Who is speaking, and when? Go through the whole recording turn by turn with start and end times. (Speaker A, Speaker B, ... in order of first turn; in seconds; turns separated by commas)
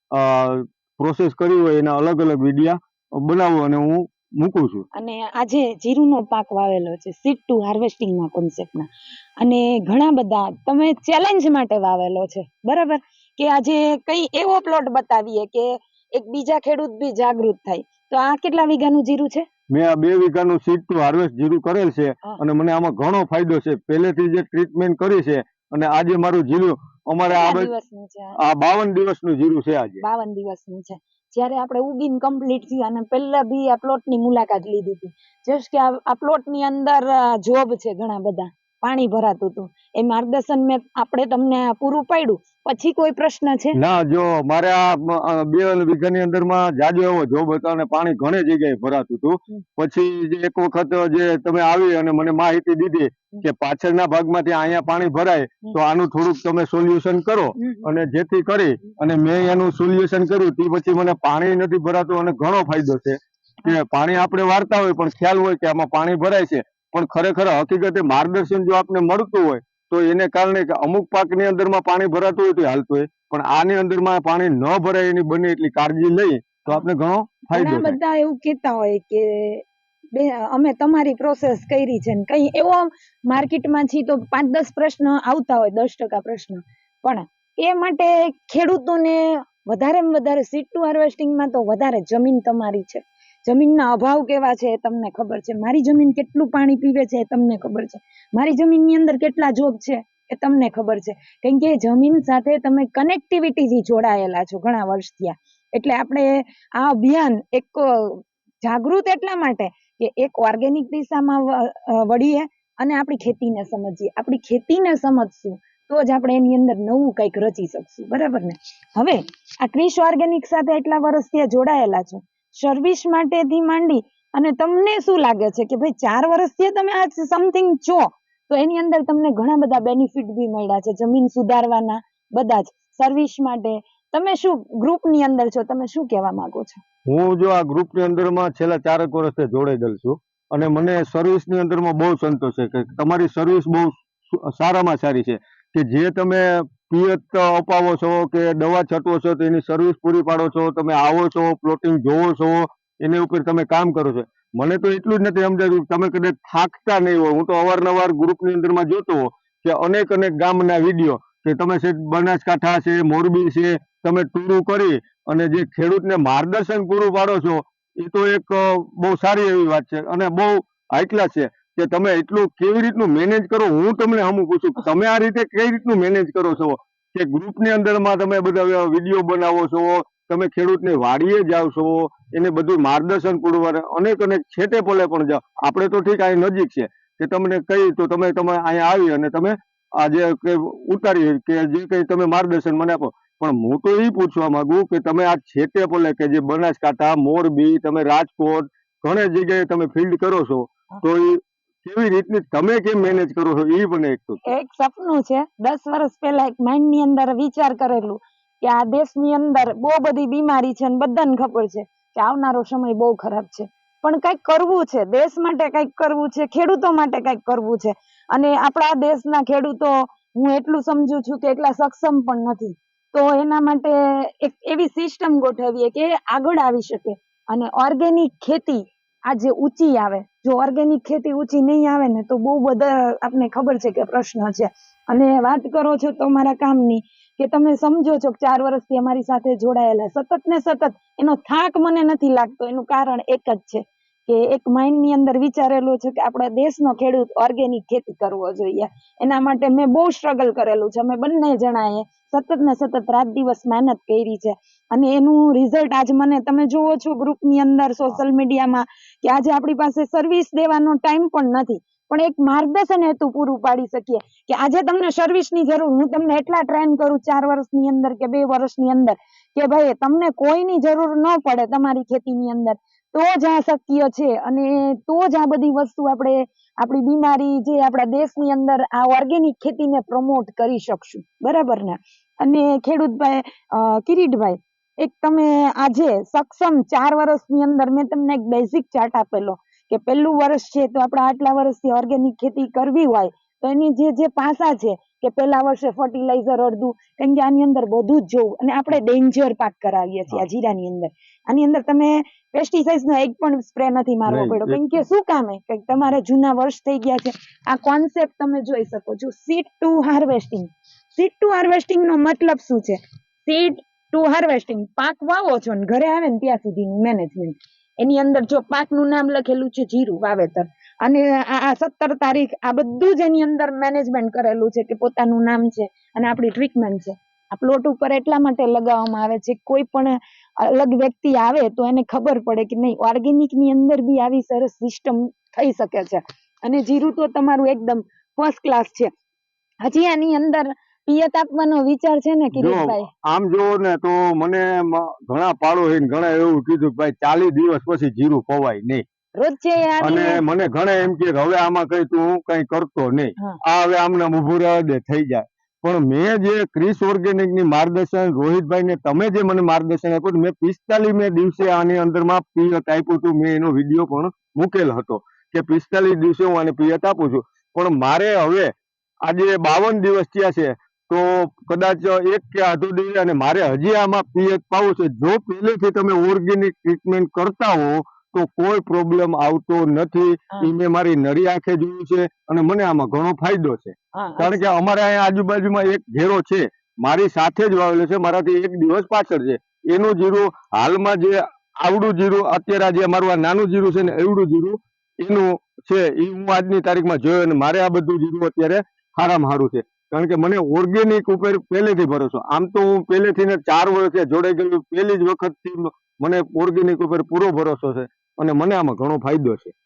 Speaker A: 0.1-4.8, Speaker B: 4.9-19.4, Speaker A: 19.7-27.7, Speaker B: 27.3-28.4, Speaker A: 28.4-30.0, Speaker B: 30.0-43.8, Speaker A: 43.7-78.0, Speaker B: 57.6-57.9, Speaker B: 77.5-136.8, Speaker A: 137.1-204.5, Speaker B: 204.4-339.1, Speaker A: 304.3-305.0, Speaker B: 339.8-343.1, Speaker A: 342.5-349.0, Speaker B: 349.4-350.4, Speaker A: 350.0-368.7, Speaker A: 369.2-409.7, Speaker B: 384.1-384.6